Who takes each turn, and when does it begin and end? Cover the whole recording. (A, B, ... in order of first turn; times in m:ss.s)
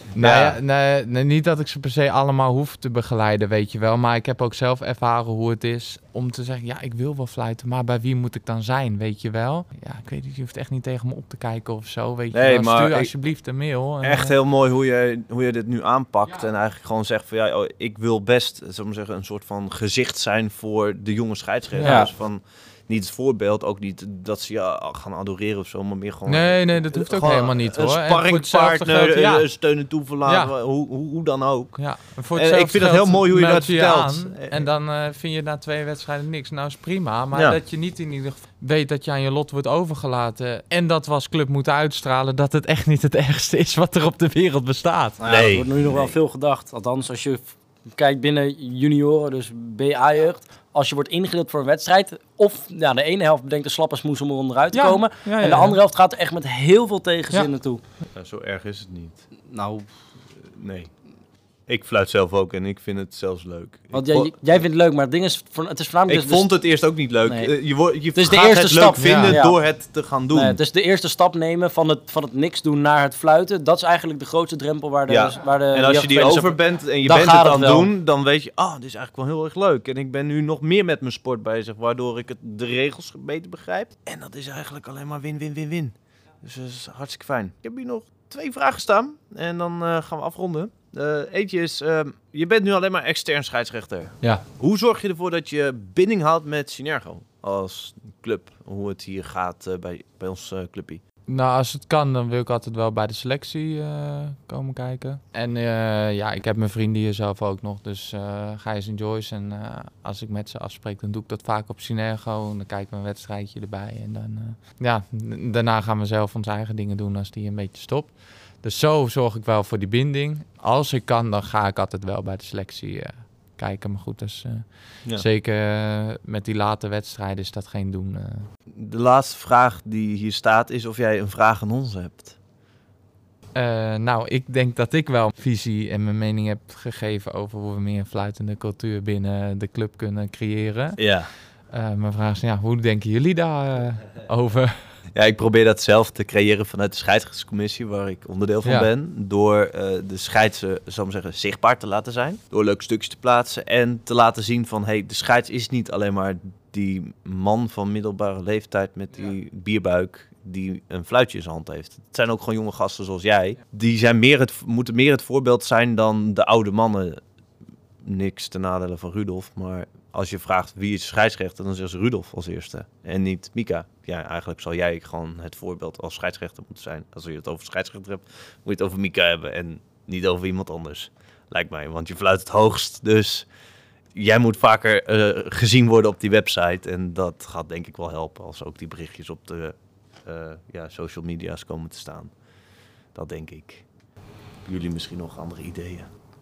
0:00.2-0:14.3 A
0:00.2-0:00.6 B
0:12.3-0:13.1 B
0:14.0-0:34.6 B
0:21.8-0:22.0 A
0:21.8-0:22.1 C
0:26.2-0:29.5 A
0:30.2-0:30.5 A
0:31.8-0:45.2 A
0:45.2-0:57.8 C
0:45.2-0:46.2 B
0:54.7-0:55.8 A
0:58.1-0:59.2 B
0:59.5-0:59.9 C
1:00.5-1:00.9 B
1:01.7-1:04.6 B
1:03.9-1:06.6 C
1:06.1-1:10.6 B
1:07.2-1:07.6 C
1:08.1-1:17.9 C
1:09.0-1:09.4 A
1:15.1-1:41.0 B
1:41.3-2:08.5 A
2:08.7-2:12.4 B
2:13.5-2:21.0 A
2:21.0-2:21.3 B
2:21.7-2:24.8 A
2:25.1-2:47.2 B
2:48.0-3:03.5 B
3:04.1-3:12.3 B
3:13.1-3:13.8 B
3:14.6-3:16.1 B